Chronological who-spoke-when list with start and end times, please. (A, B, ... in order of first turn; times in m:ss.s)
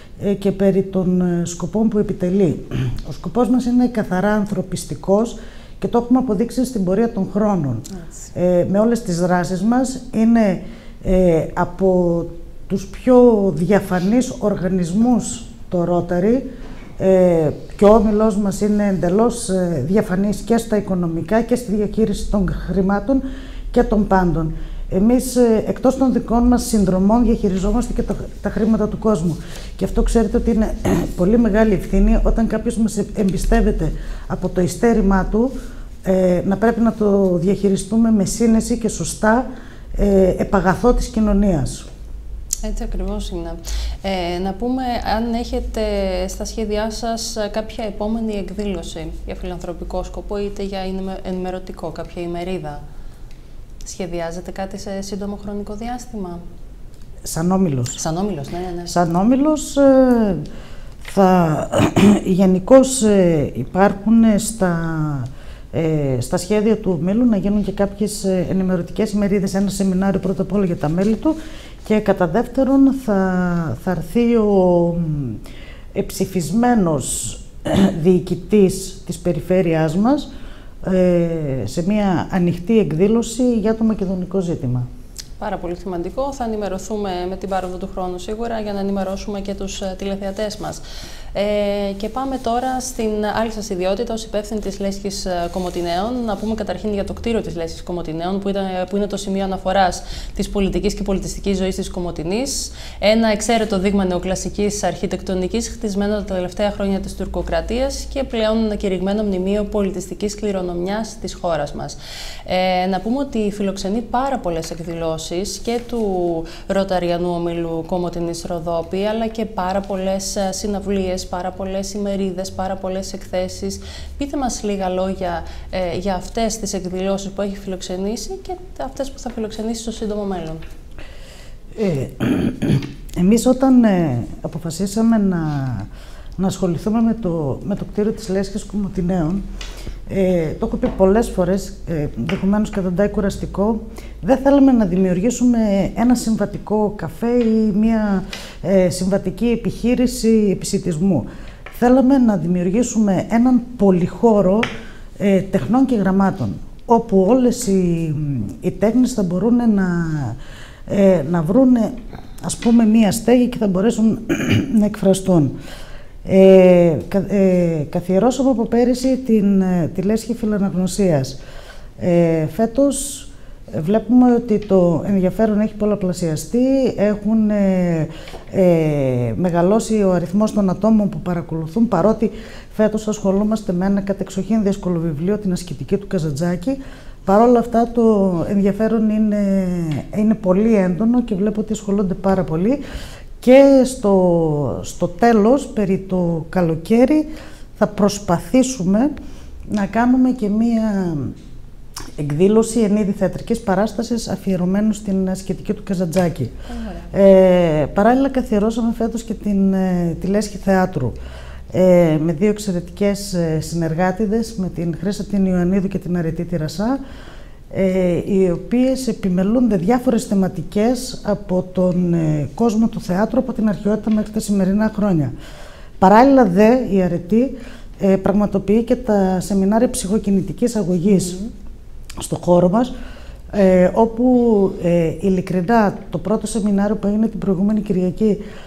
0:00.2-0:16.4 A
0:17.0-0:35.5 A
0:36.0-0:41.8 A
0:42.6-0:52.8 B
0:53.8-0:56.4 B
0:57.2-0:58.0 A
0:58.0-0:58.9 B
0:58.9-1:00.4 A
1:01.0-1:15.4 A
1:15.9-1:20.3 A
1:20.8-1:24.9 A
1:25.4-1:30.8 B
1:31.3-2:10.6 B
2:11.8-2:15.9 A
2:16.4-2:19.4 A
2:20.1-2:34.6 A
2:35.2-2:40.4 A
2:40.9-2:45.6 A
2:46.2-2:51.4 A
2:52.0-3:12.8 A
3:13.4-3:19.1 A
3:19.7-3:21.3 A
3:22.2-3:26.5 A
3:26.7-3:27.1 B
3:27.1-3:31.2 A
3:31.7-3:37.0 A
3:37.7-3:45.3 A
3:46.0-3:51.4 A
3:51.1-3:51.5 B
3:52.2-3:52.9 A
3:53.5-3:58.4 A